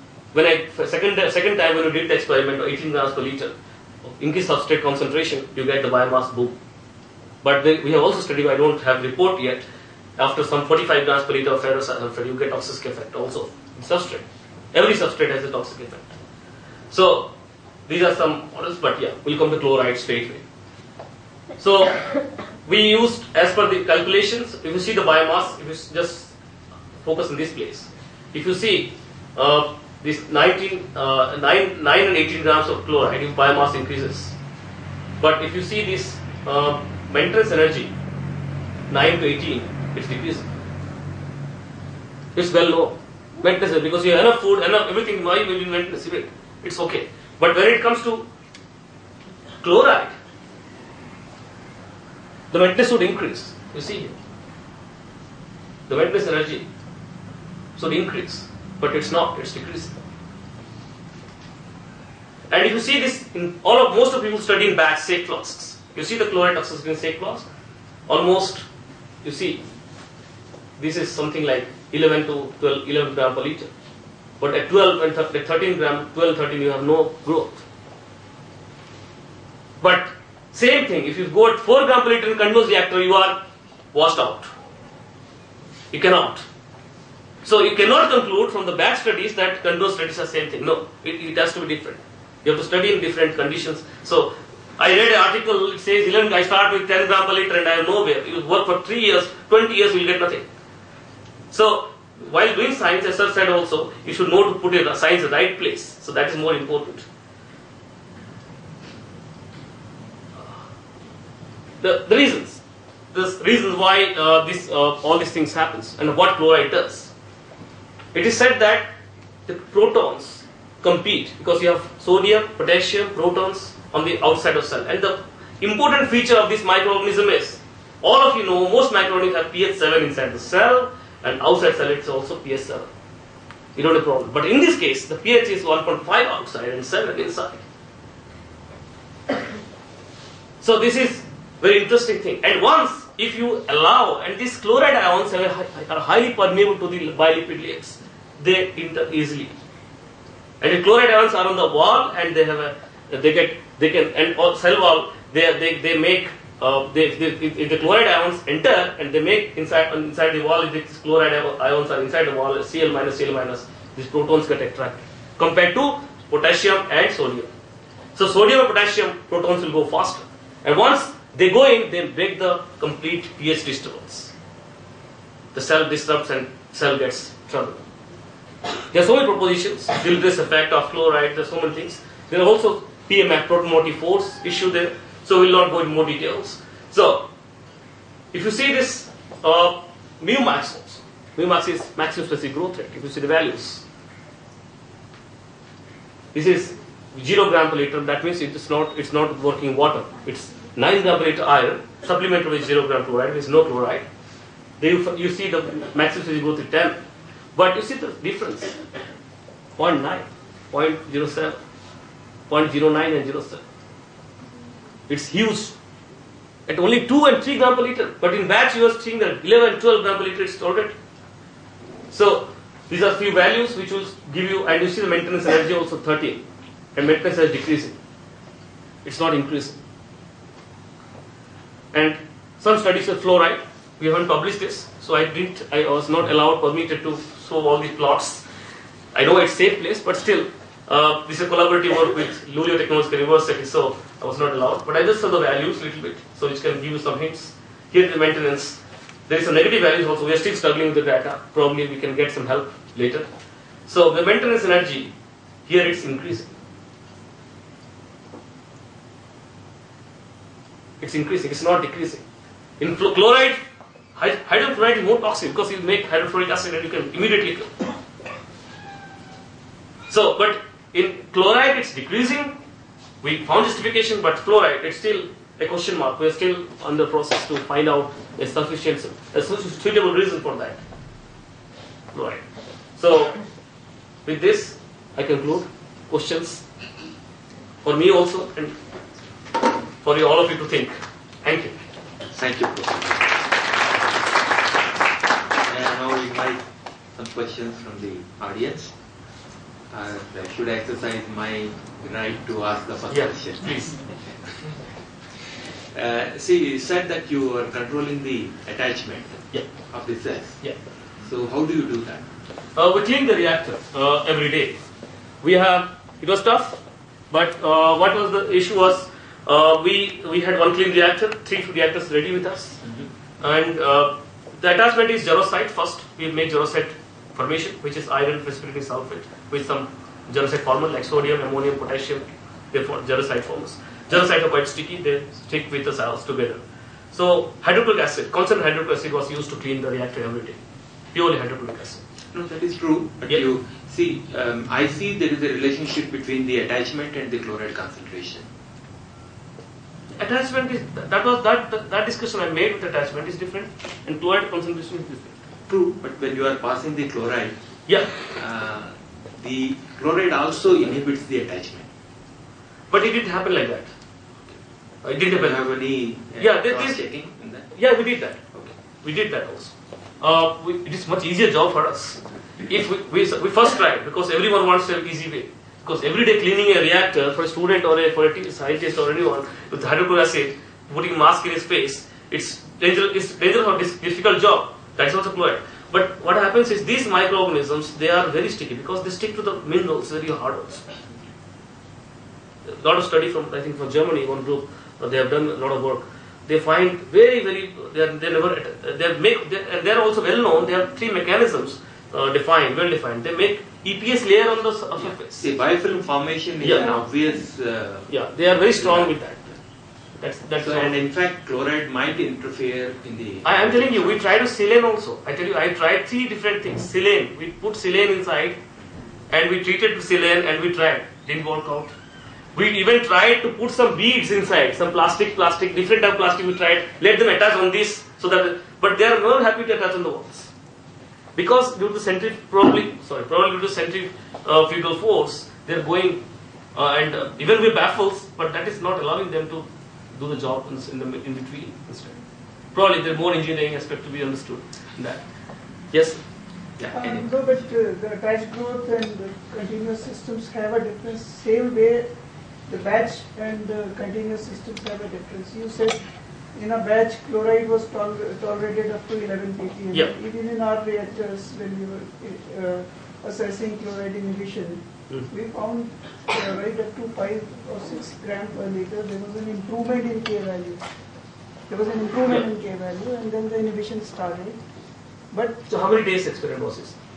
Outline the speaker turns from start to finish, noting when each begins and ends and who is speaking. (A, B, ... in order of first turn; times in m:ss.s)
0:00.3-0:03.5 A
0:04.0-0:06.6 A
0:07.4-0:09.7 A
0:10.2-0:16.0 A
0:16.9-0:17.3 A
0:17.9-0:20.4 A
0:21.6-0:26.3 A
0:27.0-0:34.4 A
0:35.2-0:37.9 A
0:38.9-0:40.5 A
0:42.4-0:48.3 A
0:49.6-0:50.2 A
0:52.5-0:54.1 A
0:55.9-0:56.7 A
0:57.8-0:59.9 A
1:02.5-1:07.5 A
1:08.1-1:08.7 A
1:09.2-1:09.6 A
1:10.8-1:13.7 A
1:14.4-1:17.6 A
1:19.8-1:23.4 A
1:23.9-1:24.5 A
1:25.9-1:26.4 A
1:27.4-1:40.5 A
1:41.5-1:47.1 A
1:51.8-1:52.6 A
1:53.1-1:57.1 A
1:58.1-1:58.9 A
1:59.5-2:12.9 A
2:13.8-2:17.6 A
2:20.6-2:29.6 A
2:30.6-2:47.5 A
2:48.2-2:54.3 A
2:55.5-2:57.8 A
2:58.9-3:07.3 A
3:08.3-3:13.8 A
3:16.3-3:24.1 A
3:24.8-3:27.0 A
3:27.6-3:28.8 A
3:29.8-3:31.6 A
3:32.5-3:33.6 A
3:35.1-3:35.8 A
3:36.7-3:40.9 A
3:42.1-3:46.4 A
3:47.0-3:48.0 A
3:49.0-3:49.8 A
3:51.9-3:58.4 A
3:59.1-4:13.3 A
4:13.9-4:15.1 A
4:15.7-4:16.5 A
4:21.0-4:22.2 A
4:22.8-4:23.6 A
4:24.2-4:27.7 A
4:30.1-4:32.6 A
4:33.2-4:40.8 A
4:42.1-4:42.4 A
4:43.0-4:43.4 A
4:44.2-4:46.6 A
4:47.8-4:48.8 A
4:50.0-4:51.7 A
4:52.3-4:53.6 B
4:55.6-4:56.6 B
4:57.2-4:58.9 B
4:59.9-5:04.8 B
5:03.1-5:04.0 A
5:05.9-5:12.2 B
5:12.8-5:14.8 A
5:15.4-5:22.8 A
5:23.4-5:40.6 A
5:41.1-5:42.0 A
5:42.3-5:48.5 B
5:50.2-5:55.4 A
5:55.7-5:57.6 B
5:57.9-5:58.1 A
5:58.1-6:01.9 B
6:02.9-6:03.9 A
6:05.0-6:05.6 A
6:05.2-6:07.7 B
6:06.4-6:07.0 A
6:07.7-6:08.4 A
6:09.0-6:30.9 A
6:32.7-6:45.5 A
6:45.4-6:48.2 B
6:46.6-6:46.9 A
6:48.1-6:49.5 A
6:48.7-6:49.2 B
6:50.2-6:51.0 A
6:50.6-6:54.3 B
6:53.4-6:58.6 A
6:59.3-7:01.9 A
7:02.6-7:10.5 A
7:11.4-7:16.2 A
7:16.7-7:22.2 A
7:22.7-7:25.2 A
7:25.9-7:26.2 A
7:26.8-7:27.4 B
7:26.9-7:32.1 C
7:32.7-7:50.8 C
7:51.7-7:54.6 C
7:55.3-7:55.6 C
7:55.7-7:57.0 A